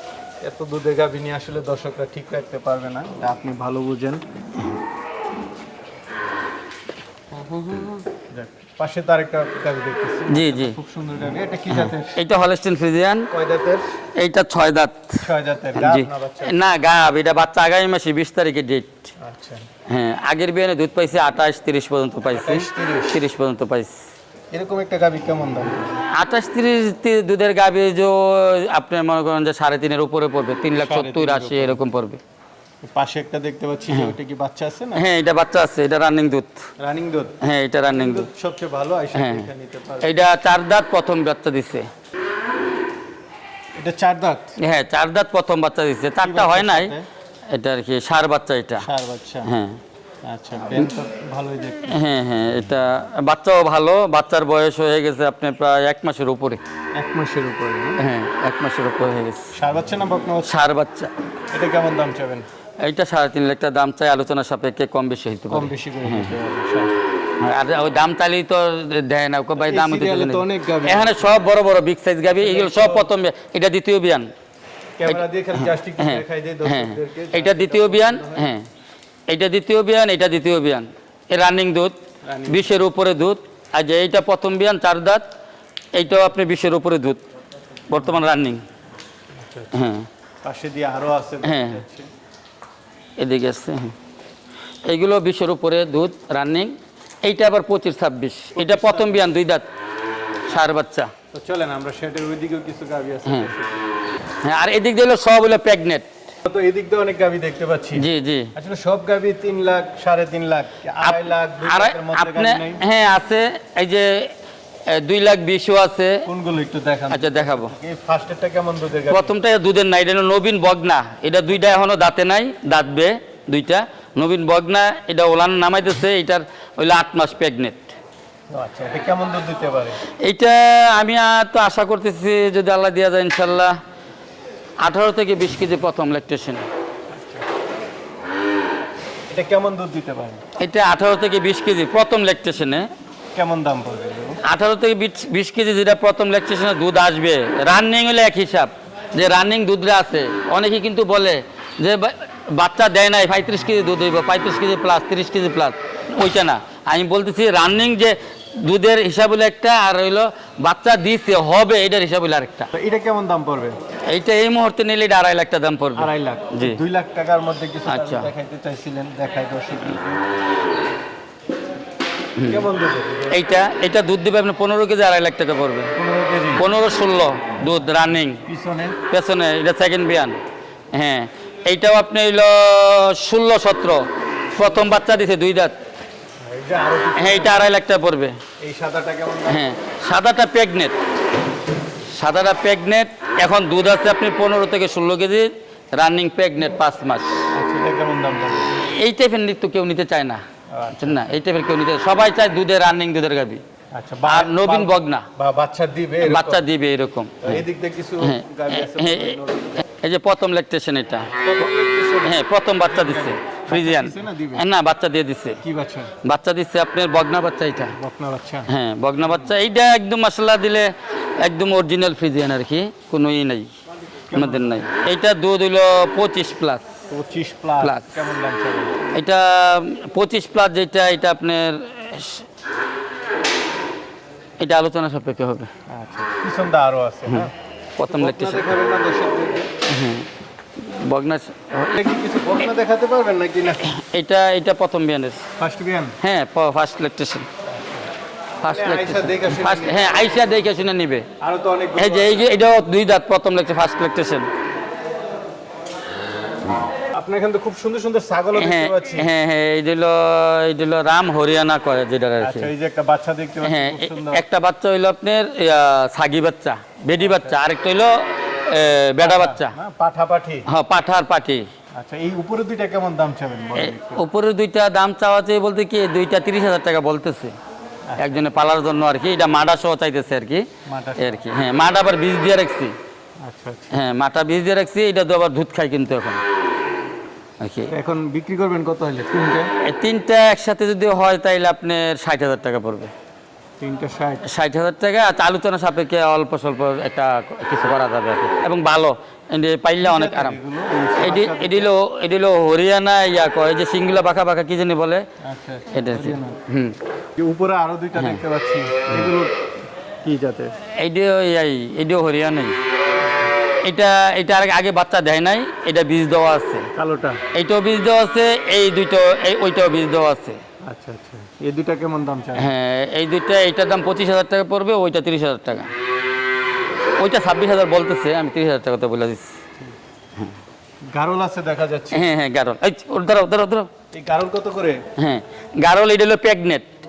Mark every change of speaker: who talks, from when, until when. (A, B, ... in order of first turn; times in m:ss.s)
0:00.4-0:04.2 A
0:07.4-0:08.0 B
0:08.3-0:12.2 A
0:10.3-0:10.8 B
0:11.7-0:13.3 B
0:13.3-0:13.8 A
0:14.2-0:19.1 B
0:15.2-0:16.6 A
0:19.2-0:19.7 A
0:19.9-0:24.0 B
0:22.2-0:23.2 A
0:24.5-0:26.0 A
0:26.1-0:32.2 B
0:30.8-0:31.8 A
0:32.8-0:35.0 A
0:35.0-0:36.6 B
0:36.8-0:37.4 A
0:37.4-0:38.3 B
0:37.9-0:40.2 A
0:39.1-0:39.5 B
0:40.0-0:41.9 B
0:43.8-0:44.6 A
0:44.6-0:46.9 B
0:46.2-0:47.1 A
0:47.5-0:48.9 B
0:48.8-0:49.5 A
0:49.4-0:49.8 B
0:50.2-0:52.0 A
0:51.9-0:56.6 B
0:57.0-0:58.0 A
0:58.0-0:59.5 B
0:59.5-1:00.6 A
1:00.4-1:01.1 B
1:01.5-1:02.5 A
1:02.8-1:06.3 B
1:05.5-1:06.9 A
1:07.4-1:14.3 B
1:09.6-1:11.4 A
1:12.3-1:13.1 A
1:15.0-1:18.5 A
1:15.1-1:18.7 B
1:19.3-1:25.2 B
1:22.2-1:22.8 A
1:25.9-1:27.2 B
1:27.9-1:28.6 B
1:29.4-1:29.7 A
1:29.7-1:30.1 B
1:30.4-1:32.1 A
1:31.4-1:31.8 B
1:33.2-1:34.0 B
1:34.9-1:39.7 B
1:38.5-1:39.3 A
1:40.5-1:41.1 B
1:41.3-1:43.8 A
1:44.4-1:46.1 B
1:46.5-1:52.8 A
1:48.0-1:48.5 B
1:51.0-1:54.3 B
1:54.9-1:56.3 B
1:56.2-1:59.3 A
1:57.1-1:57.7 B
1:59.1-2:08.0 B
2:08.5-2:10.0 A
2:10.2-2:13.8 B
2:14.8-2:16.6 B
2:17.1-2:17.4 A
2:19.3-2:20.4 A
2:20.6-2:22.9 B
2:23.4-2:24.4 A
2:24.4-2:42.7 B
2:42.7-2:43.8 A
2:44.1-2:46.8 B
2:46.0-2:50.2 A
2:47.9-2:48.3 B
2:52.4-2:52.7 B
2:52.4-2:53.4 A
2:53.3-2:56.0 B
2:56.0-2:56.6 A
2:56.6-2:58.4 B
2:58.5-2:59.0 A
2:59.1-3:00.4 B
3:00.9-3:05.8 B
3:06.4-3:07.7 A
3:07.2-3:08.4 B
3:08.6-3:09.6 A
3:09.5-3:11.0 B
3:12.1-3:17.3 B
3:17.5-3:18.8 A
3:18.8-3:20.4 B
3:20.7-3:21.4 A
3:20.9-3:23.6 B
3:23.9-3:26.6 A
3:24.3-3:25.3 B
3:26.2-3:27.6 B
3:27.4-3:29.8 A
3:28.2-3:31.4 B
3:31.4-3:34.6 A
3:32.2-3:35.6 B
3:35.6-3:36.1 A
3:36.2-3:38.0 B
3:37.8-3:38.7 A
3:38.7-3:43.7 B
3:39.2-3:39.5 A
3:44.3-3:44.9 A
3:44.3-3:46.9 B
3:47.1-3:49.0 A
3:47.8-3:48.2 B
3:49.1-3:52.5 B
3:54.6-3:55.7 B
3:55.9-3:57.5 A
3:57.3-3:58.7 B
3:58.0-3:59.7 A
3:59.9-4:02.0 B
4:01.9-4:03.9 A
4:03.8-4:05.4 B
4:05.6-4:06.2 A
4:06.2-4:07.5 B
4:07.7-4:08.1 A
4:08.6-4:11.3 B
4:08.6-4:10.3 A
4:11.4-4:12.5 A
4:12.0-4:14.5 B
4:17.1-4:19.3 A
4:18.6-4:22.7 B
4:22.4-4:24.4 A
4:23.6-4:29.8 B
4:27.2-4:27.6 A
4:29.2-4:30.7 A
4:30.7-4:31.7 B
4:32.0-4:34.2 A
4:33.8-4:37.5 B
4:38.1-4:38.5 A
4:38.2-4:40.7 B
4:40.9-4:41.4 A
4:41.2-4:43.0 B
4:43.4-4:44.0 A
4:43.9-4:46.4 B
4:47.6-4:47.9 B
4:47.9-4:49.7 A
4:49.8-4:53.1 B
4:53.8-4:54.5 A
4:54.4-5:00.6 B
5:00.0-5:01.9 A
5:01.2-5:05.2 B
5:05.4-5:06.6 A
5:05.9-5:07.0 B
5:07.4-5:09.6 A
5:10.2-5:10.8 A
5:10.9-5:12.8 B
5:13.8-5:16.9 B
5:17.0-5:17.4 A
5:17.5-5:20.6 B
5:20.9-5:22.7 A
5:22.6-5:25.9 B
5:27.2-5:29.5 B
5:31.1-5:32.3 A
5:32.1-5:33.9 B
5:34.1-5:35.0 A
5:35.2-5:36.9 B